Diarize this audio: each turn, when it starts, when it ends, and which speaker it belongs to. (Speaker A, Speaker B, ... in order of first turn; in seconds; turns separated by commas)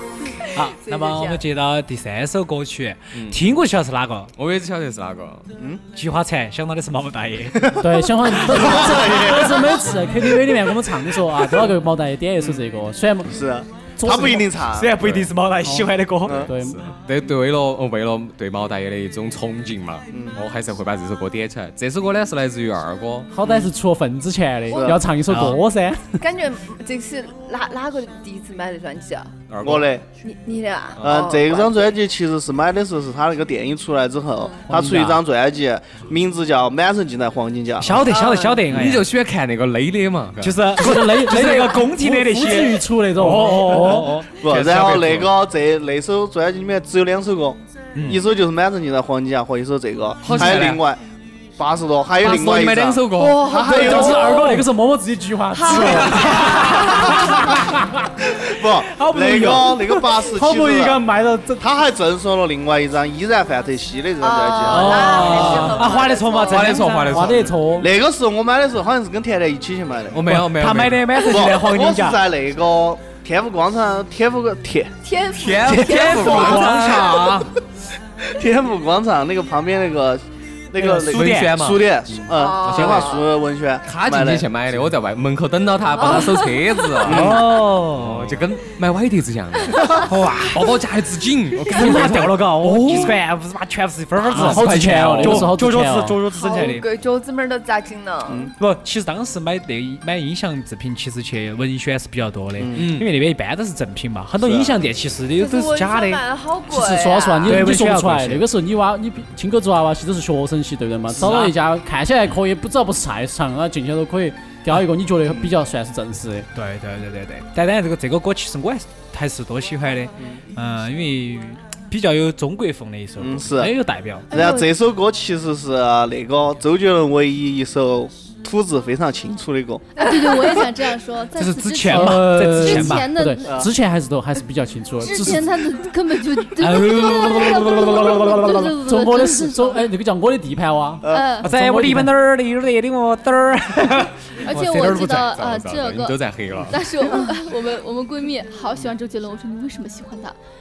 Speaker A: 0.2-1.4, Speaker B: 0.5-4.3, Speaker C: 3.1-3.4, Speaker C: 4.4-5.5, Speaker B: 5.9-7.7, Speaker D: 7.6-9.8, Speaker E: 7.8-13.4, Speaker D: 13.2-14.9, Speaker E: 14.0-14.4, Speaker B: 14.7-16.5, Speaker C: 15.0-15.3, Speaker C: 16.3-23.3, Speaker E: 16.5-16.9, Speaker D: 20.1-20.4, Speaker E: 23.3-26.2, Speaker A: 24.7-25.0, Speaker D: 24.7-25.0, Speaker B: 25.3-25.6, Speaker A: 26.2-29.3, Speaker C: 29.5-29.9, Speaker D: 29.6-30.0, Speaker A: 30.2-32.0, Speaker D: 31.0-38.1, Speaker E: 34.7-35.2, Speaker B: 37.8-39.1, Speaker A: 38.1-38.8, Speaker C: 38.7-40.7, Speaker B: 40.4-44.3, Speaker E: 40.8-44.2, Speaker D: 44.4-51.0, Speaker C: 44.4-45.3, Speaker B: 48.0-48.2, Speaker C: 50.2-50.8, Speaker D: 51.6-54.5, Speaker C: 52.2-53.6, Speaker A: 53.2-54.6, Speaker E: 53.4-57.9, Speaker A: 55.5-57.5, Speaker B: 56.4-57.4, Speaker D: 58.3-61.0, Speaker B: 58.8-60.2, Speaker E: 60.4-61.7, Speaker D: 61.6-65.5, Speaker A: 64.2-66.9, Speaker E: 64.7-65.8, Speaker B: 64.7-67.4, Speaker C: 65.3-65.7, Speaker C: 66.3-67.6, Speaker E: 67.1-67.9, Speaker D: 67.8-70.3, Speaker C: 70.1-71.2, Speaker B: 70.2-72.2, Speaker D: 71.2-74.9, Speaker A: 75.0-77.2, Speaker C: 75.4-77.1, Speaker B: 75.6-77.5, Speaker D: 75.9-77.3, Speaker D: 78.2-84.7, Speaker B: 80.8-81.5, Speaker C: 81.0-83.1, Speaker A: 82.3-83.3, Speaker C: 83.9-93.1, Speaker A: 86.0-86.9, Speaker D: 87.0-87.4, Speaker B: 87.1-88.4, Speaker B: 89.9-90.7, Speaker B: 91.6-96.8, Speaker C: 94.3-95.6, Speaker E: 94.3-96.2, Speaker A: 96.3-98.5, Speaker B: 98.6-106.2, Speaker D: 102.6-102.8, Speaker C: 102.8-103.1, Speaker C: 104.4-104.7, Speaker A: 105.4-107.7, Speaker E: 106.7-116.5, Speaker B: 107.5-108.4, Speaker B: 111.1-111.6, Speaker B: 116.5-124.3, Speaker D: 123.2-123.7, Speaker F: 124.3-124.7, Speaker D: 124.3-129.9, Speaker F: 129.9-133.6, Speaker A: 130.1-130.4, Speaker B: 131.4-133.1, Speaker E: 131.9-135.5, Speaker D: 133.4-133.7, Speaker F: 135.0-139.9, Speaker B: 136.6-138.5, Speaker E: 137.1-142.1, Speaker F: 141.1-141.5, Speaker B: 141.4-145.3, Speaker F: 144.4-150.3, Speaker C: 145.2-146.8